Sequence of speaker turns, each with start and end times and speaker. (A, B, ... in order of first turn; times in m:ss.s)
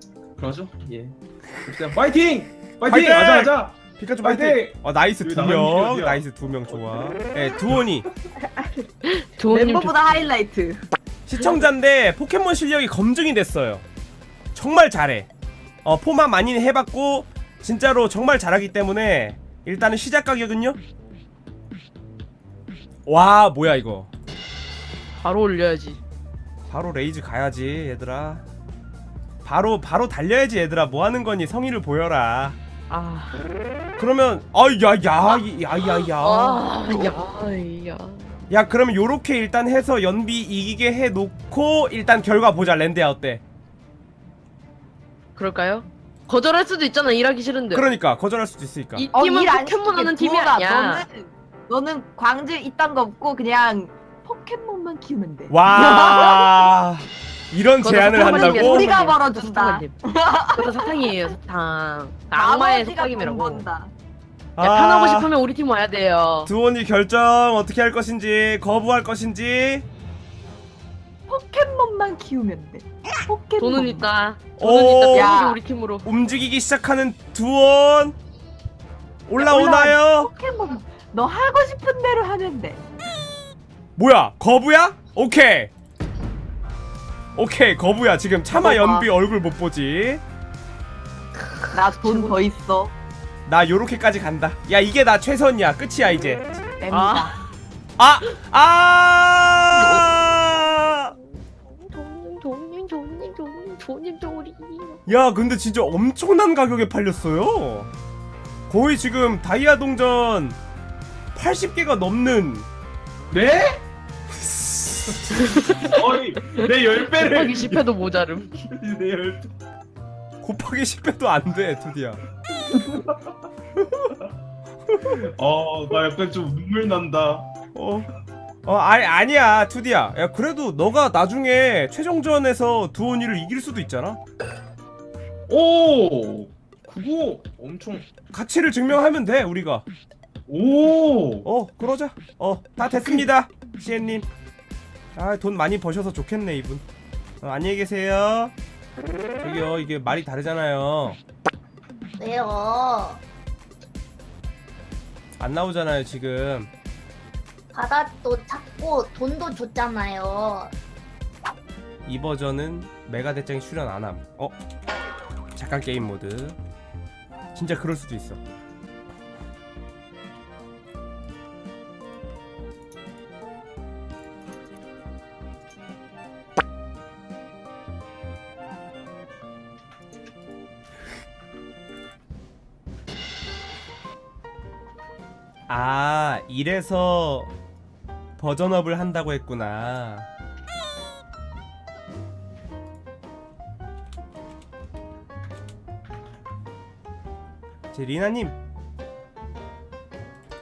0:00.4-0:07.0 A
0:02.8-0:08.1 B
0:07.5-0:08.2 A
0:08.4-0:08.8 C
0:09.1-0:10.3 D
0:09.5-0:10.8 C
0:11.3-0:13.8 B
0:14.6-0:15.3 B
0:15.8-0:20.8 B
0:23.1-0:24.1 B
0:25.2-0:26.0 D
0:26.7-0:28.4 B
0:29.4-0:32.6 B
0:32.9-0:33.4 D
0:34.0-0:37.2 B
0:36.1-0:38.4 D
0:38.5-0:43.4 B
0:45.4-0:47.9 D
0:47.7-0:49.1 B
0:49.0-0:51.1 D
0:49.1-0:56.7 C
0:55.5-0:58.9 B
0:57.8-1:00.0 D
0:58.2-1:01.2 C
1:00.6-1:03.7 D
1:02.3-1:03.9 C
1:04.6-1:05.3 B
1:04.6-1:06.5 D
1:06.5-1:09.9 B
1:11.3-1:14.1 C
1:13.6-1:16.1 D
1:14.6-1:15.3 B
1:15.1-1:15.6 C
1:16.0-1:18.2 B
1:19.3-1:20.3 B
1:19.4-1:22.8 C
1:24.0-1:25.7 B
1:27.4-1:30.2 B
1:28.5-1:29.1 C
1:31.7-1:32.9 C
1:31.9-1:32.4 D
1:33.5-1:36.5 B
1:36.8-1:37.4 C
1:36.9-1:37.4 D
1:38.0-1:41.1 B
1:39.8-1:45.0 D
1:45.1-1:47.9 B
1:48.7-1:50.6 B
1:51.4-1:52.7 B
1:53.3-1:53.8 A
1:54.3-1:55.4 B
1:55.3-1:58.7 D
1:55.8-1:57.9 A
1:58.7-1:59.5 A
2:00.4-2:02.2 B
2:02.8-2:03.2 A
2:03.8-2:04.2 B
2:05.1-2:07.5 A
2:07.7-2:08.1 B
2:08.6-2:14.2 B
2:15.5-2:18.1 A
2:18.3-2:19.8 B
2:20.5-2:21.4 A
2:21.4-2:24.3 B
2:25.2-2:26.8 B
2:27.4-2:28.5 B
2:29.4-2:31.2 B
2:32.2-2:33.2 E
2:35.4-2:36.7 B
2:37.7-2:40.7 E
2:42.1-2:44.6 B
2:45.6-2:46.6 B
2:47.5-2:48.4 B
3:05.7-3:07.5 B
3:08.4-3:10.3 B
3:17.9-3:18.6 B